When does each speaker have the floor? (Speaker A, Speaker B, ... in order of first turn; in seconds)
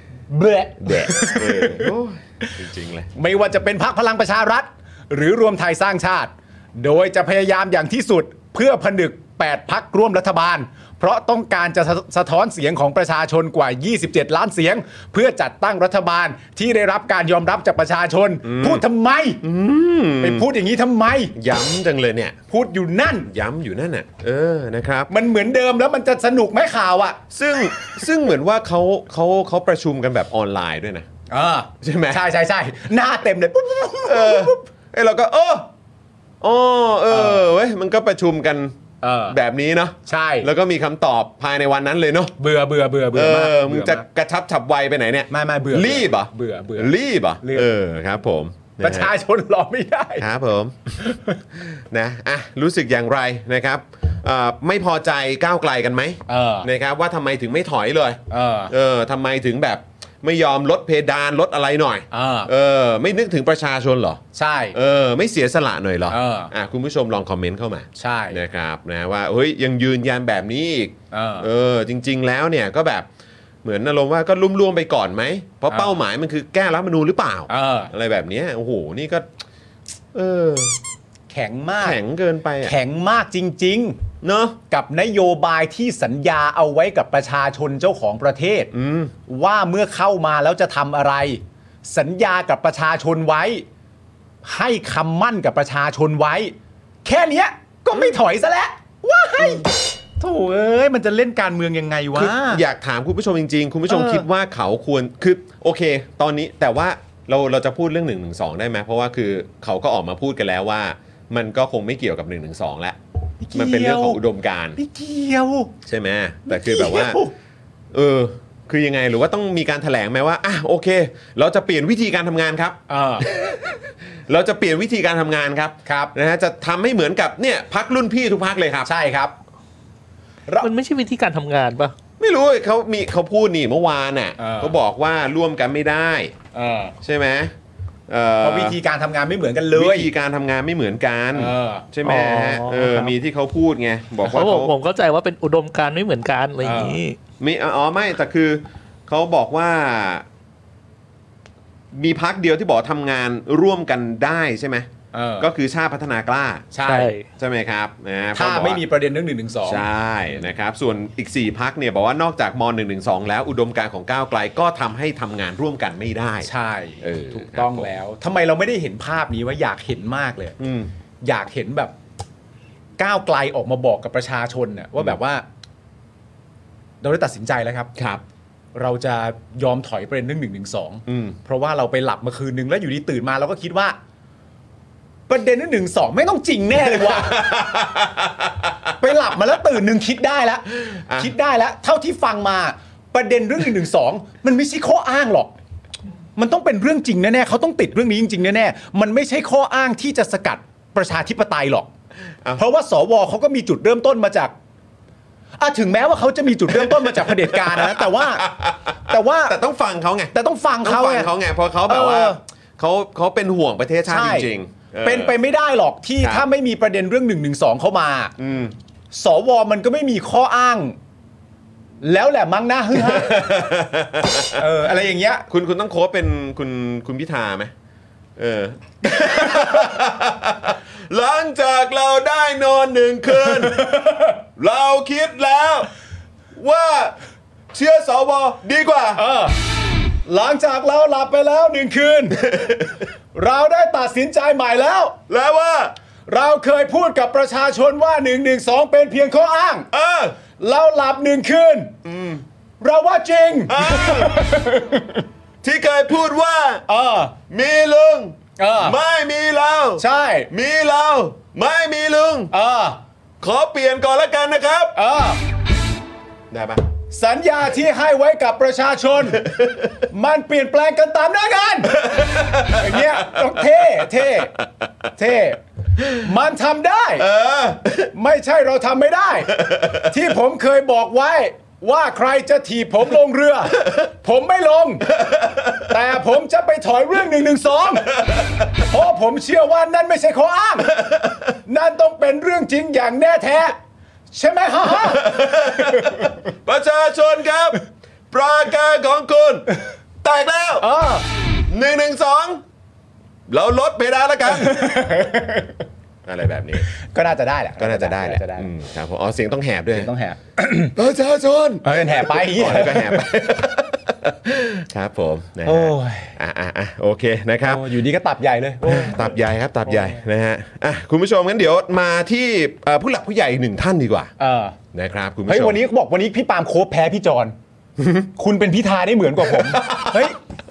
Speaker A: 0.3-1.9, 3.1-19.4, 20.2-21.3, 22.5-23.3, 25.1-27.2, 27.8-28.0, 31.3-34.6, 37.1-37.4, 39.0-39.4, 40.0-40.5, 42.4-44.0, 45.3-47.7, 48.8-50.2, 51.0-51.4, 56.3-56.7, 58.3-58.7, 62.1-62.5, 64.3-64.8, 66.1-66.5, 68.0-68.4, 71.1-71.5, 75.7-76.0, 77.5-77.9, 81.3-82.0, 82.6-84.0, 84.7-88.7, 89.2-93.6, 94.4-102.6, 103.9-104.2, 113.4-114.2, 114.8-115.7, 116.5-117.3, 122.9-123.3, 125.9-126.1, 128.8-129.3, 134.4-134.8, 136.5-136.9, 138.4-140.1, 141.3-141.9, 146.6-147.0, 155.1-155.5, 156.7-157.1, 158.3-159.8, 166.4-170.6, 171.2-171.9, 173.0-175.4, 177.0-177.9, 178.7-183.9, 185.3-187.5, 189.0-195.5, 196.4-201.9, 202.6-204.5, 205.6-208.5, 209.1-209.6, 210.3-211.3, 211.9-212.4, 214.1-214.5, 215.0-218.3, 219.1-221.0, 222.0-223.6, 224.5-225.4, 233.3-234.4, 239.2-239.6, 240.2-242.6, 243.3-245.2, 246.3-249.9, 250.6-251.9, 252.8-255.2, 256.9-257.4, 258.6-259.0, 260.0-260.5, 262.5-263.0, 264.9-265.4, 267.1-274.6, 275.1-277.3, 278.1-285.2, 285.8-288.2, 288.8-291.0, 291.6-293.8, 294.3-296.3, 300.8-301.2, 304.4-305.8, 306.9-308.7, 309.9-310.9, 311.8-313.4, 315.6-316.3, 317.6-319.3, 324.4-324.8, 325.4-327.6, 328.4-330.4
Speaker B: 0.8-3.1, 18.4-18.8, 19.4-20.4, 21.3-22.4, 23.3-25.1, 27.3-31.1, 31.8-32.2, 34.0-35.7, 36.4-38.8, 39.3-42.3, 43.1-49.1, 50.2-64.2, 64.7-73.1, 73.6-79.3, 80.1-80.8, 81.8-82.7, 84.2-84.6, 88.7-89.1, 99.4-99.7, 102.1-113.0, 113.5-114.8, 115.9-117.2, 117.9-128.9, 132.2-136.3, 137.0-137.5, 138.1-138.8, 139.7-144.7, 147.4-150.2, 151.9-154.9, 155.4-156.7, 157.3-158.8, 159.6-166.5, 167.0-167.9, 170.6-170.9, 177.9-178.2, 181.1-181.4, 186.8-188.9, 190.8-191.3, 206.7-215.3, 216.2-216.4, 218.4-218.7, 222.9-224.6, 225.5-227.7, 228.4-233.9, 234.6-235.9, 236.6-237.2, 237.7-239.2, 242.4-243.0, 245.3-245.9, 249.9-250.4, 252.0-252.4, 253.7-254.6, 255.6-256.8, 257.5-262.5, 263.4-265.0, 266.5-266.8, 269.3-269.9, 271.9-274.4, 277.2-278.1, 279.5-280.1, 285.1-285.9, 288.2-288.6, 290.9-291.4, 294.9-299.7, 300.2-300.9, 301.7-302.6, 303.5-305.1, 306.2-306.9, 307.8-310.1, 310.9-317.9, 318.8-324.3, 324.9-325.8, 328.0-328.3, 329.4-330.3
Speaker C: 130.6-131.9, 142.0-143.1, 144.2-147.2, 156.8-157.2